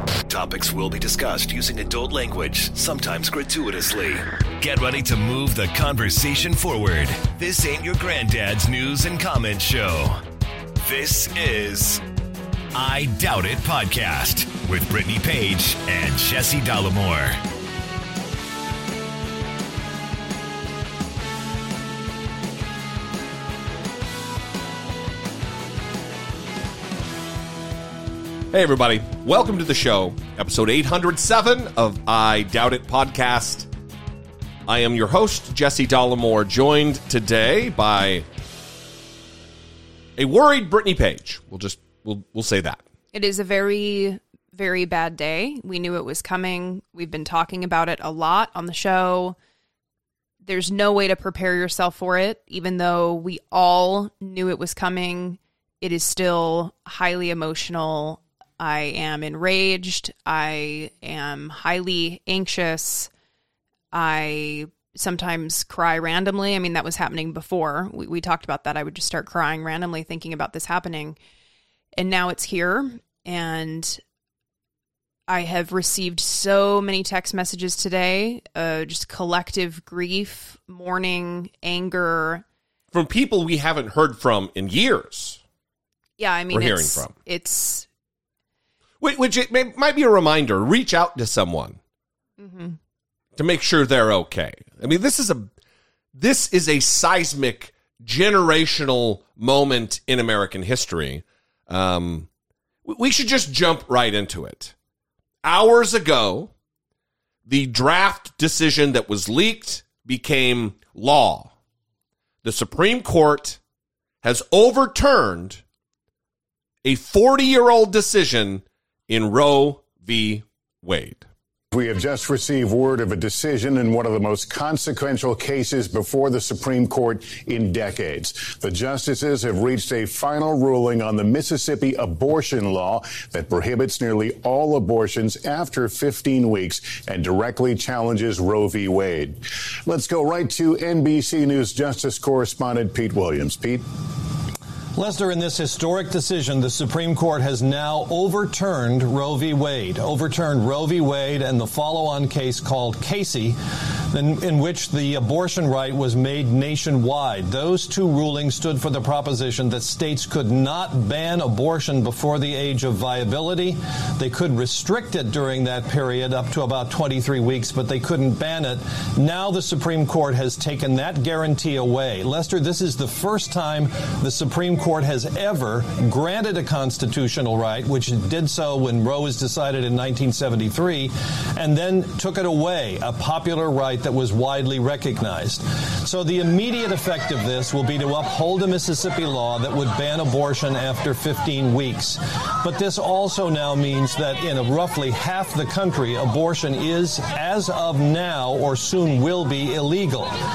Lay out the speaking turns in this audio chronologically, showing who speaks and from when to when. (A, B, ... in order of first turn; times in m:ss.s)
0:00.2-0:10.2 A
0:10.8-0:12.0 A
0:12.7-0:17.4 A
0:28.5-0:33.7 B
0:34.7-0:38.3 B
0:40.2-0:42.8 B
0:43.1-0:49.4 C
0:50.4-1:03.1 C
1:03.9-1:11.2 C
1:12.0-1:14.0 C
1:15.3-1:22.4 C
1:22.9-1:25.4 B
1:26.2-1:27.9 C
1:26.5-1:27.1 B
1:29.0-1:31.8 B
1:32.4-1:32.8 C
1:33.4-1:35.5 B
1:36.2-1:42.3 B
1:42.8-1:44.7 B
1:45.4-1:46.5 B
1:47.5-1:51.5 B
1:52.4-1:53.6 B
1:54.2-1:55.6 B
1:56.8-2:01.3 B
2:01.7-2:23.8 D
2:25.0-2:33.6 E
2:34.1-3:20.3 E